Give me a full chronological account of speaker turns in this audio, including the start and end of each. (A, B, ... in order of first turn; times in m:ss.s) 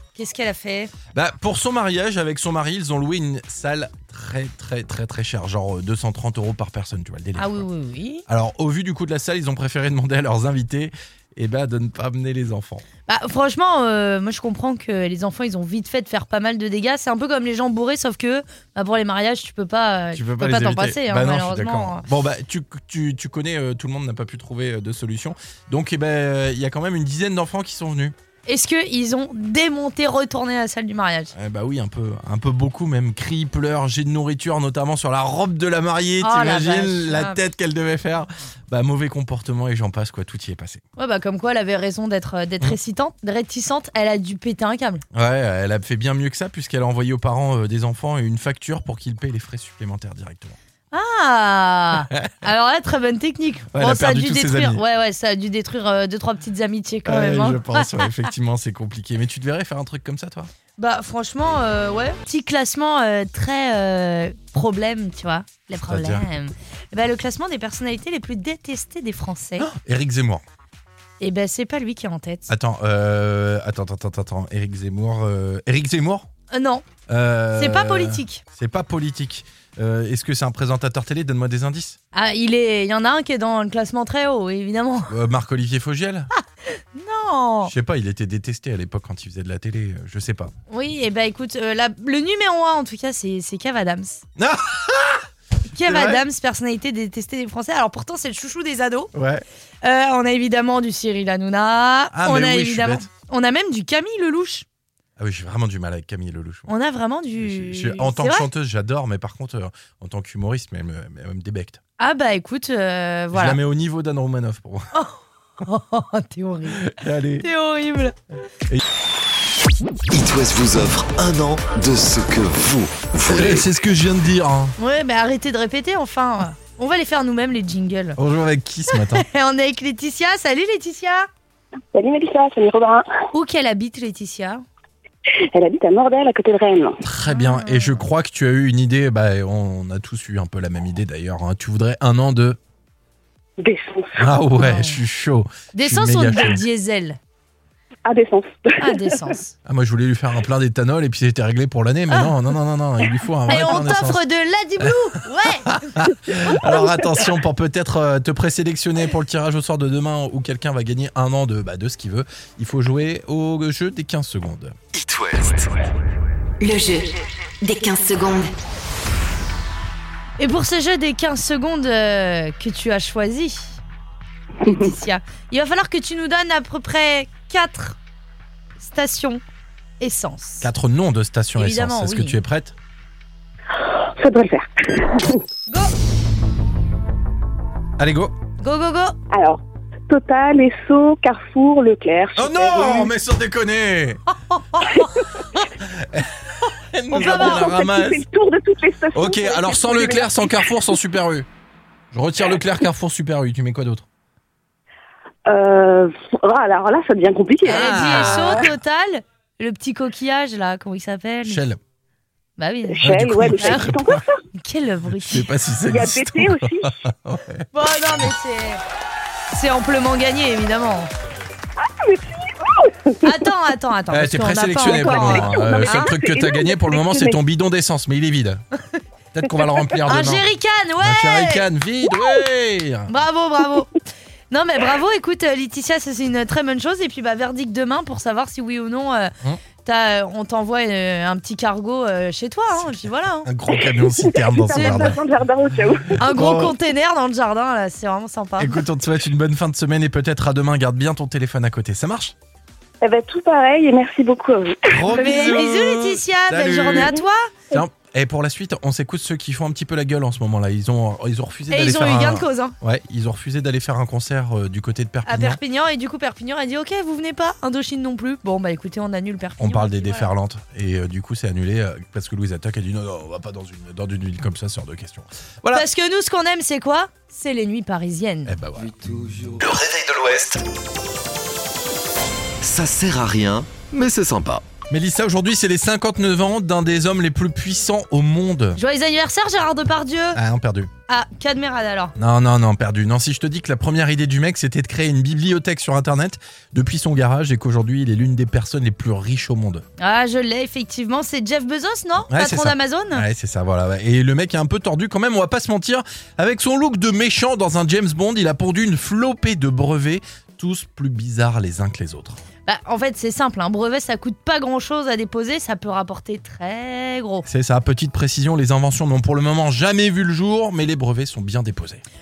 0:00.2-0:00.9 A
0:01.1-0:07.6 B
0:07.4-0:08.2 A
0:08.3-0:12.8 B
0:13.1-0:22.0 A
0:20.1-0:28.1 B
0:28.5-0:31.3 A
0:31.3-0:40.8 B
0:36.2-0:37.4 A
0:41.0-0:45.0 A
0:45.1-0:50.6 B
0:50.9-0:58.0 A
0:53.7-0:54.8 B
0:57.0-1:00.5 B
1:00.8-1:09.7 A
1:05.8-1:06.3 B
1:09.6-1:10.4 B
1:11.2-1:12.5 A
1:12.5-1:16.3 B
1:16.5-1:16.8 A
1:17.1-1:22.0 B
1:17.6-1:18.4 A
1:22.1-1:25.1 A
1:25.1-1:26.3 B
1:26.4-1:27.7 A
1:27.6-1:30.5 B
1:30.7-1:34.2 A
1:34.4-1:35.3 B
1:35.7-1:39.1 A
1:35.8-1:36.2 B
1:39.1-1:39.4 B
1:39.8-1:44.6 A
1:42.1-1:43.1 B
1:45.2-1:46.7 B
1:46.7-1:48.5 A
1:47.4-1:51.8 B
1:52.0-1:53.6 A
1:53.3-1:54.9 B
1:54.9-1:58.1 A
1:56.7-1:57.5 B
2:00.1-2:03.6 C
2:03.2-2:04.8 B
2:04.8-2:08.2 A
2:08.2-2:09.3 B
2:08.9-2:11.3 A
2:11.9-2:13.1 D
2:13.3-2:14.6 A
2:15.5-2:17.0 D
2:17.0-2:22.6 B
2:17.3-2:18.0 A
2:23.6-2:24.3 D
2:24.2-2:26.6 B
2:24.6-2:25.0 A
2:25.7-2:27.2 A
2:28.0-2:29.2 D
2:28.8-2:29.5 A
2:29.6-2:34.2 B
2:33.5-2:36.0 A
2:35.6-2:44.8 B
2:44.9-2:45.8 C
2:46.6-2:48.5 E
2:50.4-2:53.8 A
2:54.6-2:58.0 A
2:58.8-2:59.4 A
3:00.0-3:00.7 A
3:00.6-3:02.7 B
3:01.6-3:02.4 A
3:03.7-3:05.4 D
3:05.7-3:05.9 A
3:08.0-3:08.3 B
3:08.6-3:09.2 A
3:09.3-3:13.1 D
3:12.3-3:14.2 B
3:14.7-3:15.0 A
3:14.9-3:15.4 D
3:15.8-3:18.2 B
3:17.1-3:20.9 D
3:17.1-3:17.7 A
3:19.1-3:21.5 B
3:22.1-3:24.0 B
3:25.5-3:28.7 D
3:27.6-3:28.7 B
3:27.6-3:31.6 A
3:31.4-3:31.8 B
3:32.6-3:33.9 A
3:32.9-3:34.4 D
3:33.0-3:34.2 B
3:34.5-3:35.5 A
3:35.1-3:37.7 B
3:35.8-3:37.0 D
3:37.7-3:38.8 A
3:39.5-3:41.1 A
3:41.8-3:43.4 D
3:43.2-3:46.1 A
3:44.1-3:48.6 B
3:44.8-3:47.4 D
3:49.3-3:50.5 B
3:50.0-3:51.7 A
3:51.0-3:53.1 B
3:53.1-3:54.0 A
3:54.5-3:59.3 A
3:59.8-4:03.5 A
4:02.7-4:05.2 B
4:03.7-4:06.2 D
4:04.7-4:05.2 A
4:06.1-4:06.7 B
4:06.2-4:08.8 A
4:08.6-4:12.3 B
4:13.0-4:15.6 D
4:14.9-4:17.2 B
4:15.1-4:17.5 A
4:17.7-4:25.6 B
4:21.7-4:22.7 A
4:25.2-4:30.3 A
4:29.6-4:35.9 B
4:35.7-4:38.5 A
4:38.4-4:38.9 B
4:38.8-4:40.6 C
4:42.6-4:44.6 C
4:44.9-4:48.8 B
4:48.8-4:50.4 A
4:50.3-4:50.9 B
4:51.1-4:52.1 A
4:52.2-4:59.8 B
5:00.0-5:03.2 A
5:02.3-5:12.4 B
5:12.7-5:17.4 A
5:17.4-5:22.0 B